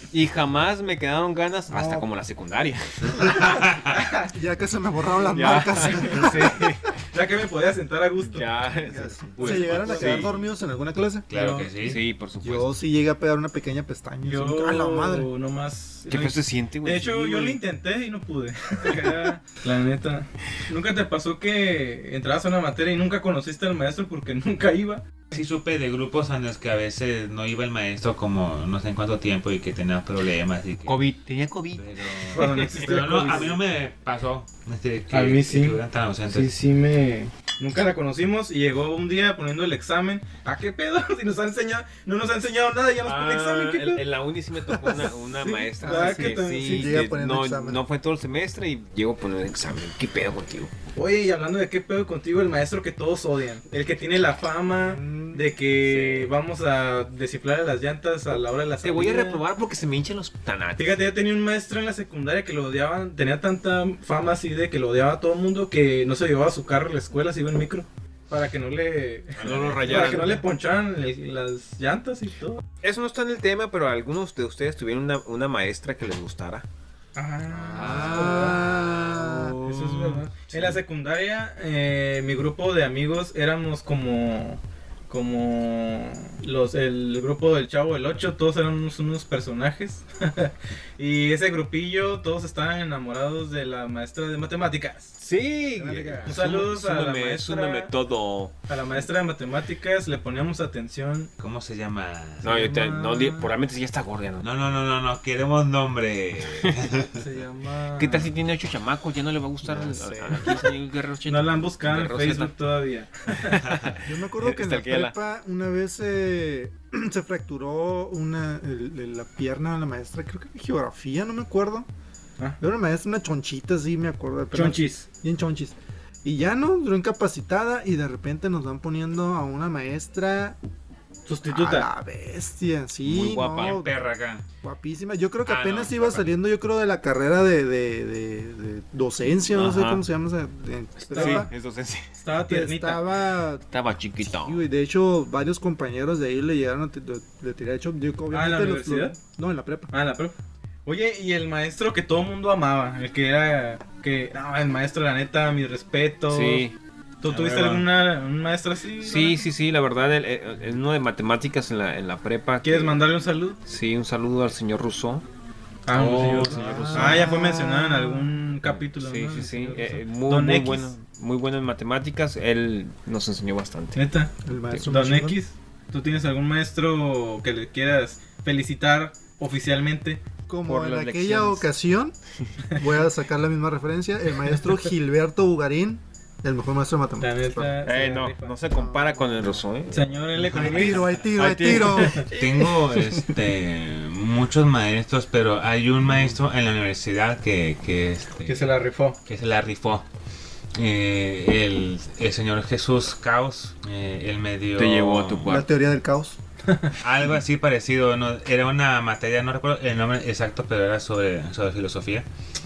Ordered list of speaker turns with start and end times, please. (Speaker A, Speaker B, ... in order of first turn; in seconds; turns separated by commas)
Speaker A: 0.1-3.4, Speaker B: 1.7-2.1, Speaker C: 3.2-3.9, Speaker D: 3.9-4.3, Speaker B: 4.3-6.5, Speaker A: 5.3-6.9, Speaker D: 5.8-6.1, Speaker D: 7.1-8.5, Speaker A: 8.2-10.3, Speaker B: 8.9-11.3, Speaker C: 9.4-10.3, Speaker D: 9.4-10.1, Speaker C: 11.3-12.0, Speaker D: 11.3-11.7, Speaker A: 11.8-12.8, Speaker B: 12.4-15.3, Speaker D: 14.2-25.1, Speaker A: 16.1-17.6, Speaker C: 25.3-31.0, Speaker A: 30.9-33.4, Speaker C: 31.8-36.5, Speaker D: 32.3-33.5, Speaker D: 35.1-44.0, Speaker A: 43.0-50.7, Speaker B: 44.8-45.1, Speaker D: 45.3-47.0, Speaker B: 45.8-47.8, Speaker D: 50.9-59.4, Speaker B: 54.8-55.5, Speaker A: 55.9-56.3, Speaker A: 58.8-61.0, Speaker D: 60.8-72.6, Speaker A: 69.4-70.4, Speaker C: 69.4-70.2, Speaker A: 72.8-76.6, Speaker D: 77.2-78.6, Speaker B: 77.5-79.6, Speaker A: 77.7-80.8, Speaker C: 77.8-78.2, Speaker D: 79.6-95.2, Speaker A: 95.2-98.5, Speaker B: 95.8-96.4, Speaker D: 96.2-97.9, Speaker D: 98.7-101.3, Speaker C: 101.4-102.7, Speaker D: 102.4-103.5, Speaker A: 102.4-104.5, Speaker C: 104.4-107.2, Speaker D: 107.2-108.3, Speaker A: 108.0-112.5, Speaker B: 109.6-110.5, Speaker D: 111.3-113.6, Speaker A: 113.5-115.1, Speaker B: 114.0-121.9, Speaker B: 122.6-130.6, Speaker D: 124.5-125.0, Speaker D: 131.2-131.9, Speaker B: 131.5-133.9, Speaker A: 133.0-133.8, Speaker C: 133.5-134.4, Speaker B: 134.6-141.5, Speaker C: 135.4-136.3, Speaker A: 139.5-140.0, Speaker A: 141.0-142.1, Speaker D: 141.1-141.4, Speaker D: 142.2-143.0, Speaker B: 142.4-143.7, Speaker A: 143.7-144.6, Speaker B: 144.2-149.9, Speaker D: 148.3-149.2, Speaker D: 149.9-150.3, Speaker D: 150.8-156.7, Speaker A: 156.3-156.7, Speaker D: 157.2-159.4, Speaker C: 157.2-157.9, Speaker A: 159.0-163.0, Speaker D: 162.6-163.6, Speaker A: 163.7-165.2, Speaker D: 165.9-170.9, Speaker C: 165.9-167.2, Speaker A: 166.0-167.3, Speaker B: 166.5-168.3, Speaker A: 168.6-174.0, Speaker D: 173.9-174.3, Speaker B: 174.4-175.4, Speaker D: 174.9-180.2, Speaker B: 180.5-182.2, Speaker A: 180.6-181.7, Speaker B: 182.8-187.8, Speaker D: 187.2-188.5, Speaker A: 187.8-192.3, Speaker B: 188.7-189.6, Speaker D: 189.9-191.0, Speaker B: 190.5-192.2, Speaker D: 191.9-192.4, Speaker C: 192.3-198.7, Speaker D: 198.4-199.2, Speaker C: 199.2-200.0, Speaker C: 200.8-205.6, Speaker A: 204.8-205.6, Speaker B: 205.4-206.4, Speaker D: 206.7-206.9, Speaker C: 207.0-212.2